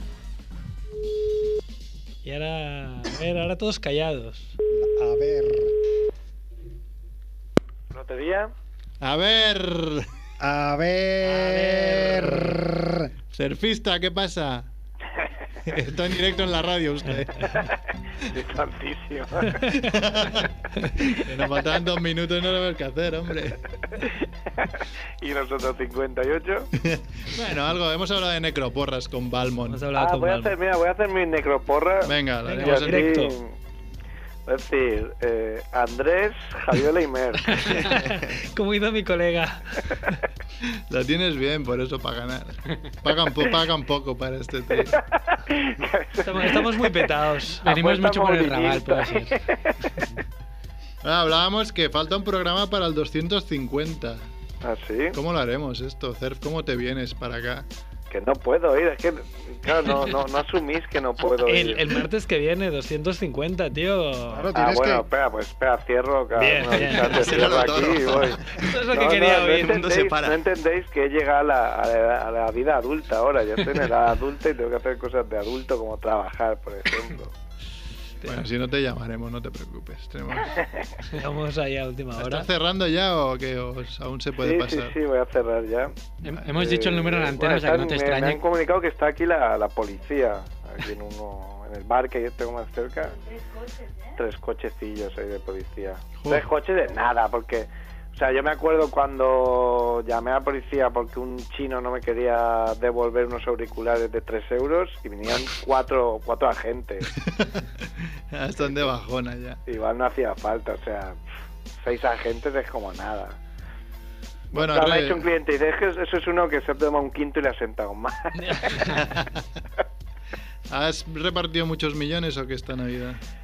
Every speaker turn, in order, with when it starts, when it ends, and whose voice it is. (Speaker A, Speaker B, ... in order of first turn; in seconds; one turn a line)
Speaker A: 2.2-4.5
Speaker B: 4.7-5.7
Speaker C: 7.9-8.5
Speaker D: 9.0-10.1
Speaker B: 10.4-13.1
Speaker A: 11.2-12.5
Speaker D: 13.3-14.7
Speaker D: 15.7-17.6
Speaker C: 18.3-19.6
Speaker A: 19.5-19.9
Speaker D: 19.8-20.5
Speaker D: 21.0-23.6
Speaker C: 25.2-26.7
Speaker D: 26.8-29.8
Speaker A: 29.7-30.6
Speaker C: 29.9-33.5
Speaker D: 32.0-33.2
Speaker A: 32.4-33.4
Speaker C: 34.5-37.9
Speaker A: 37.5-40.2
Speaker D: 40.9-45.0
Speaker C: 44.9-47.1
Speaker A: 46.2-47.7
Speaker E: 47.6-49.4
Speaker C: 47.6-49.7
Speaker D: 51.0-54.2
Speaker C: 54.6-55.1
Speaker D: 55.1-57.6
Speaker C: 58.1-61.8
Speaker A: 61.4-64.5
Speaker B: 64.3-65.0
Speaker C: 64.5-68.4
Speaker A: 66.3-67.8
Speaker D: 66.7-70.4
Speaker A: 68.5-69.9
Speaker C: 68.9-77.3
Speaker D: 78.2-81.0
Speaker A: 81.1-82.5
Speaker D: 82.2-85.0
Speaker C: 84.4-86.0
Speaker E: 86.2-88.4
Speaker C: 86.5-93.1
Speaker C: 94.2-107.1
Speaker D: 96.2-96.5
Speaker D: 107.2-107.6
Speaker D: 108.3-109.6
Speaker C: 108.6-108.9
Speaker C: 109.7-111.2
Speaker C: 111.8-113.4
Speaker D: 114.5-115.3
Speaker C: 114.5-118.9
Speaker A: 118.3-119.0
Speaker D: 119.0-119.3
Speaker D: 120.7-123.2